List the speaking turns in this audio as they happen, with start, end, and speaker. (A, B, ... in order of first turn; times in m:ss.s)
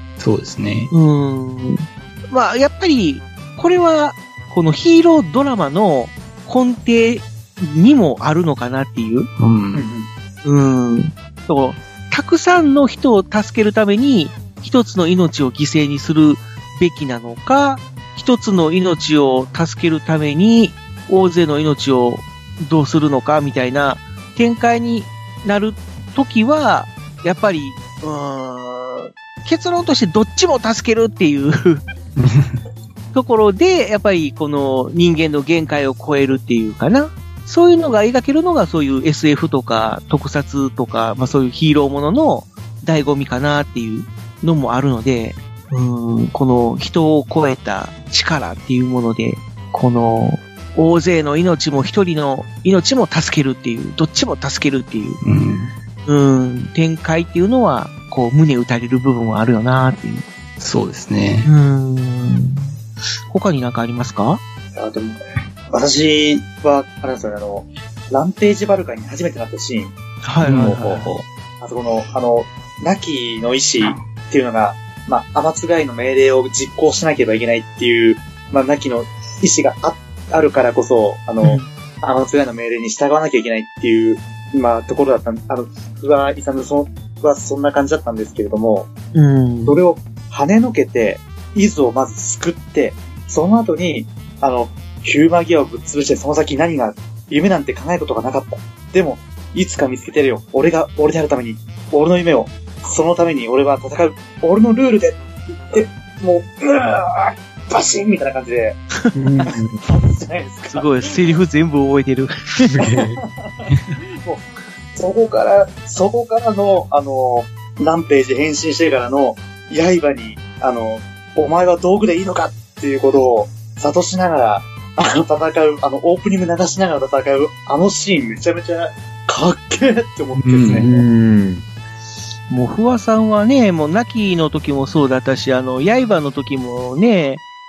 0:00.2-0:00.9 A
0:00.9-0:09.3 B
0:09.4-0:09.8 A
0:09.7-0:10.1 C
0:10.4-0:31.8 B
0:32.2-0:32.5 A
0:33.1-0:55.2 B
0:55.2-0:55.7 A
0:56.0-1:00.2 B
1:00.6-1:01.5 A
1:01.4-1:02.7 B
1:03.3-1:04.4 B
1:04.7-1:05.2 C
1:05.7-1:09.9 C
1:10.2-1:11.1 B
1:10.4-1:11.2 A
1:11.6-1:28.9 C
1:21.4-1:21.7 B
1:29.1-1:29.8 B
1:29.6-1:45.2 C
1:45.7-1:48.8 C
1:49.1-1:49.8 D
1:49.5-1:51.0 C
1:50.7-1:52.7 B
1:52.6-1:53.2 D
1:52.8-1:53.7 C
1:54.9-2:10.9 C
2:10.4-2:10.8 A
2:10.7-2:11.6 D
2:12.5-2:17.4 B